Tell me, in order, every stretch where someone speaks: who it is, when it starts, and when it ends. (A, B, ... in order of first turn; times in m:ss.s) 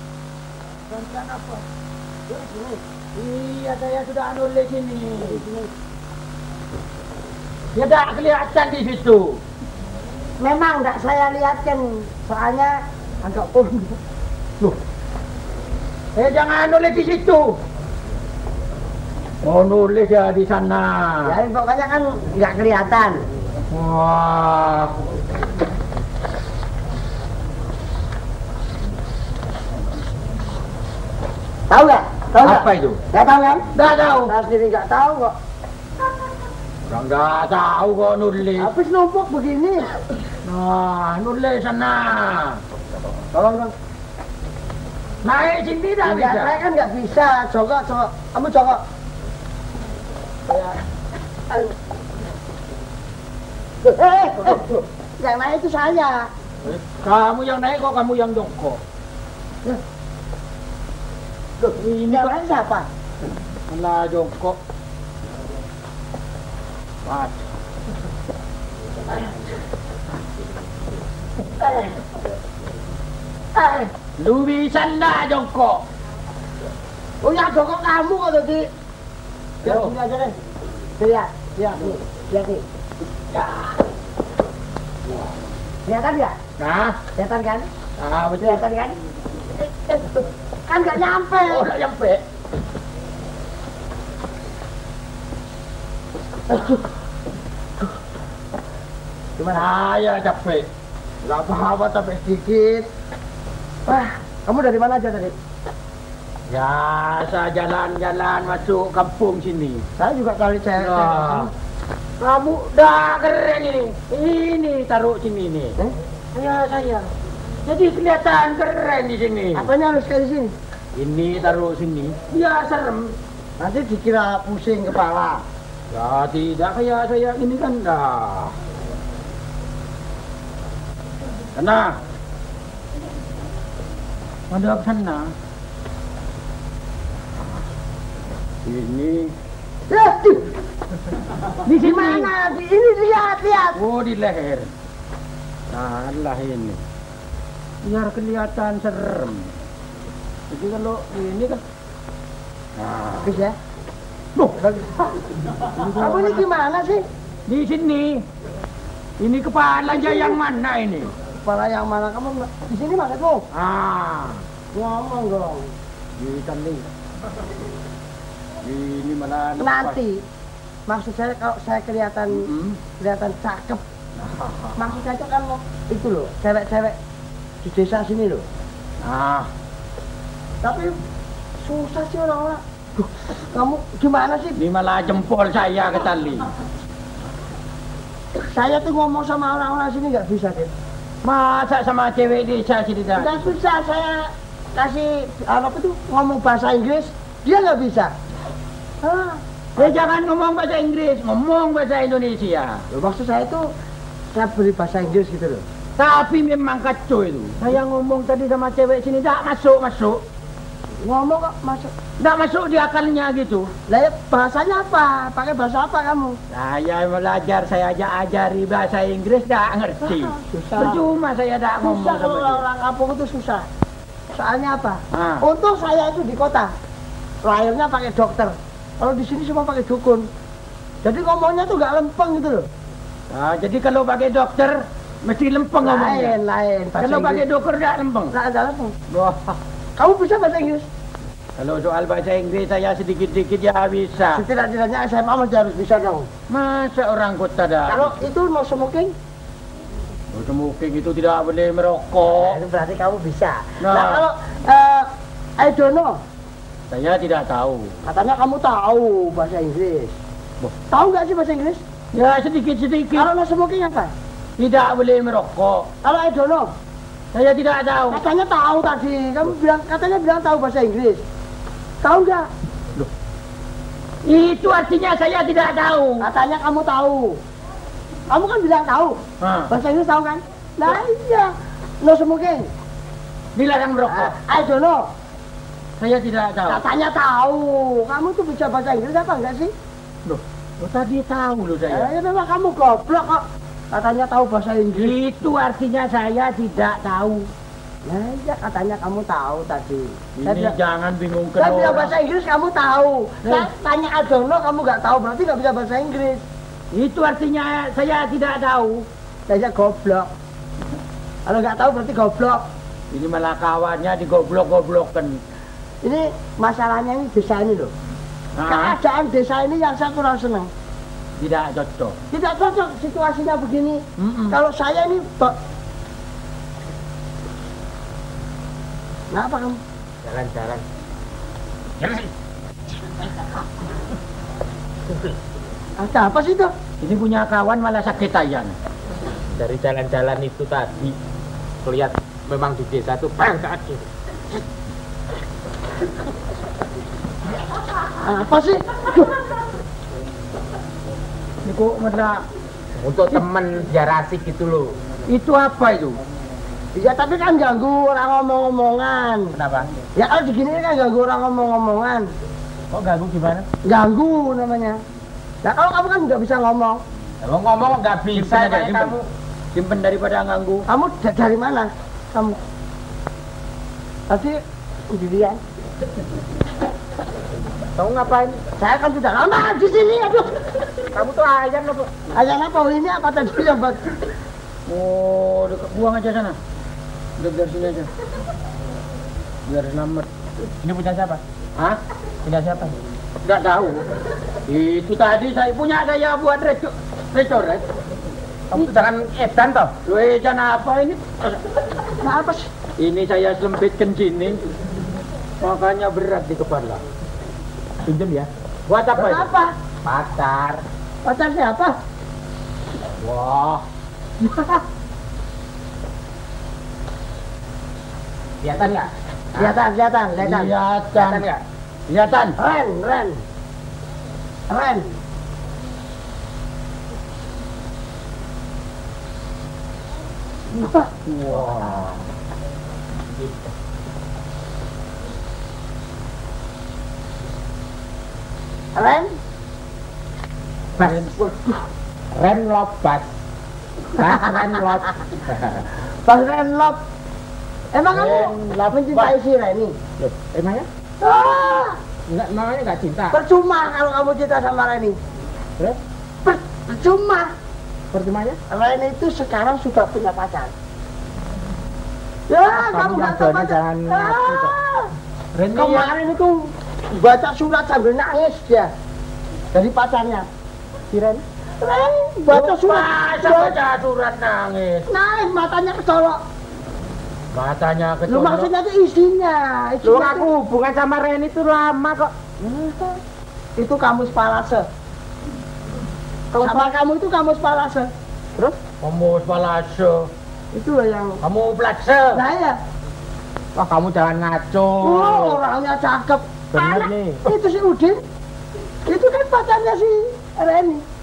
0:00.9-0:01.6 A
0:02.3-0:02.8 A
0:03.2-0:05.4 B
0:05.2-0:05.7 A
0:07.8-0:09.4 B
0:10.4-0:14.0 A
0:16.2-0:17.6 B
0:19.4-0:21.4 B
0:21.2-0:23.2 A
0:23.7-0:25.0 B
0:31.7-0:33.7 A
0:32.4-0:33.0 B
0:33.7-0:34.3 B
0:34.3-0:35.4 A
0:36.9-0:38.7 B
0:38.6-0:39.9 A
0:40.4-0:42.6 B
0:43.3-0:43.7 A
0:45.2-0:46.6 B
0:46.0-0:48.8 A
0:50.5-0:50.7 B
0:53.8-0:56.3 A
0:56.6-0:58.8 B
1:01.6-1:02.4 B
1:02.1-1:02.9 A
1:03.7-1:04.6 B
1:07.0-1:07.4 B
1:11.6-1:11.9 A
1:13.6-1:13.9 A
1:14.2-1:15.8 B
1:17.2-1:18.7 A
1:19.6-1:20.4 A
1:19.6-1:19.9 B
1:21.0-1:22.6 A
1:23.3-1:23.6 B
1:25.8-1:26.4 A
1:26.6-1:27.0 B
1:27.2-1:27.7 A
1:28.0-1:28.6 B
1:28.4-1:29.0 A
1:29.6-1:31.7 A
1:31.5-1:32.2 B
1:36.5-1:36.8 A
1:39.4-1:39.7 A
1:39.5-1:40.7 B
1:41.2-1:42.9 A
1:43.9-1:45.4 A
1:46.5-1:49.9 B
1:50.0-1:51.5 A
1:50.8-1:51.5 B
1:52.2-1:55.8 B
1:56.3-1:57.1 B
1:57.6-1:59.7 B
1:59.6-2:00.5 A
2:01.0-2:03.2 B
2:03.6-2:05.4 A
2:05.9-2:08.5 B
2:11.6-2:12.0 B
2:14.5-2:15.3 B
2:18.6-2:19.3 B
2:19.9-2:20.5 A
2:21.6-2:22.3 B
2:21.7-2:23.8 A
2:23.8-2:24.7 B
2:25.7-2:26.8 B
2:27.8-2:29.5 B
2:30.5-2:31.6 B
2:32.8-2:33.4 B
2:33.2-2:33.6 A
2:34.4-2:34.6 B
2:34.6-2:34.9 A
2:35.6-2:36.5 B
2:35.9-2:37.0 A
2:37.5-2:38.3 B
2:39.2-2:41.1 B
2:39.9-2:40.4 A
2:41.4-2:43.4 A
2:43.5-2:44.4 B
2:44.7-2:45.7 A
2:46.2-2:46.9 B
2:48.6-2:50.0 B
2:49.6-2:50.2 A
2:50.9-2:53.8 A
2:52.3-2:52.8 B
2:54.2-2:54.8 B
2:54.8-2:57.0 A
2:57.6-2:58.4 A
2:59.0-2:59.5 B
3:00.6-3:00.9 A
3:01.6-3:04.6 A
3:04.6-3:06.5 B
3:08.4-3:10.7 A
3:11.2-3:13.5 B
3:13.2-3:18.1 A
3:19.0-3:20.0 A
3:19.8-3:22.8 B
3:22.9-3:23.7 A
3:24.3-3:25.6 A
3:26.0-3:30.2 B
3:31.0-3:31.9 A
3:32.2-3:33.7 B
3:33.9-3:36.4 A
3:36.5-3:42.6 B
3:40.0-3:41.0 A
3:41.8-3:43.7 A
3:44.3-3:46.7 A
3:45.1-3:45.5 B
3:47.4-3:50.3 A
3:51.0-3:52.7 A
3:53.3-3:56.4 B
3:55.8-3:57.5 A
3:57.0-3:58.3 B
3:58.3-3:58.9 A
3:59.1-3:59.6 B
4:00.0-4:00.9 A
4:01.6-4:04.4 B
4:04.3-4:06.3 A
4:06.5-4:08.2 B
4:07.9-4:09.2 A
4:10.3-4:12.6 B
4:12.3-4:16.2 A
4:13.8-4:14.2 B
4:16.9-4:17.9 B
4:18.1-4:20.2 A
4:20.9-4:21.8 A
4:22.1-4:23.3 B
4:23.1-4:24.1 A
4:24.6-4:25.9 B
4:26.0-4:26.7 A
4:27.3-4:28.2 B
4:28.1-4:31.2 A
4:32.0-4:32.5 A
4:34.2-4:36.3 B
4:36.2-4:37.4 A
4:38.3-4:42.7 A
4:39.4-4:39.7 B
4:43.6-4:44.4 B
4:44.1-4:45.1 A
4:46.0-4:46.8 B
4:46.7-4:49.7 A
4:50.3-4:52.1 B
4:51.9-4:55.2 A
4:54.9-4:57.5 B
4:58.0-5:00.7 A
5:00.4-5:02.2 B
5:01.6-5:06.4 A
5:03.4-5:03.7 B
5:06.9-5:09.1 B
5:09.5-5:10.3 A
5:11.5-5:12.6 A
5:13.1-5:15.4 B
5:16.0-5:17.9 A
5:18.6-5:19.0 B
5:18.7-5:20.7 A
5:21.4-5:22.2 B
5:22.3-5:25.6 A
5:24.2-5:24.6 B
5:29.3-5:29.8 A
5:30.2-5:30.8 C
5:32.0-5:32.3 C
5:36.0-5:36.7 A
5:37.0-5:38.8 B
5:39.5-5:41.2 C
5:41.8-5:44.1 C
5:48.2-5:49.4 A
5:51.6-5:52.5 B
5:53.0-5:54.9 C
5:55.3-5:56.2 B
5:57.0-5:59.5 A
5:59.5-5:59.9 C
6:00.2-6:02.3 A
6:02.9-6:03.7 C
6:03.8-6:05.0 A
6:05.6-6:07.0 A
6:07.4-6:09.3 C
6:08.3-6:09.2 B
6:09.7-6:10.9 B
6:10.9-6:12.6 A
6:14.3-6:14.6 A
6:15.1-6:15.6 A
6:18.0-6:18.6 C
6:18.8-6:20.6 A
6:21.1-6:22.1 C
6:22.3-6:24.0 A
6:24.9-6:26.6 B
6:27.4-6:28.1 B
6:29.7-6:30.3 B
6:30.8-6:31.4 C
6:32.4-6:33.0 C
6:33.4-6:34.0 B
6:34.7-6:37.8 B
6:38.7-6:39.9 C
6:40.1-6:41.6 B
6:42.2-6:42.7 A
6:43.0-6:44.6 B
6:45.6-6:47.0 B
6:48.0-6:48.5 C
6:48.9-6:49.5 B
6:49.2-6:49.7 A
6:50.0-6:50.8 C
6:51.2-6:52.0 A
6:53.2-6:53.8 B
6:58.6-6:59.8 C
6:59.6-7:00.7 A
7:00.4-7:01.5 B
7:01.1-7:01.6 C
7:02.1-7:02.6 B
7:02.6-7:03.4 A
7:04.7-7:05.1 A
7:10.8-7:11.1 A
7:11.0-7:12.2 B
7:19.0-7:19.3 A
7:21.0-7:21.4 B
7:21.4-7:21.7 A
7:22.3-7:23.2 C
7:24.2-7:25.8 C
7:26.2-7:27.0 A
7:27.9-7:30.0 A
7:28.1-7:29.4 B
7:30.2-7:30.9 C
7:31.2-7:32.0 A
7:32.3-7:33.4 C
7:33.3-7:35.2 A
7:36.4-7:37.5 A
7:38.1-7:38.6 C
7:38.7-7:40.7 A
7:42.5-7:45.1 A
7:42.6-7:44.8 C
7:45.7-7:46.1 B
7:45.7-7:48.9 A
7:49.7-7:50.5 A
7:51.1-7:51.4 C
7:51.8-7:53.8 A
7:52.5-7:55.1 B
7:55.1-7:56.4 A
7:57.5-7:58.7 B
7:58.3-8:00.5 A
8:00.0-8:02.3 C
8:02.6-8:03.2 A
8:03.8-8:04.9 A
8:06.5-8:08.1 A
8:06.6-8:06.9 C
8:09.0-8:10.3 B
8:10.7-8:11.4 A
8:11.4-8:12.4 B
8:12.3-8:12.8 A
8:13.8-8:15.6 C
8:15.0-8:18.2 A
8:16.7-8:17.5 C
8:19.1-8:21.0 A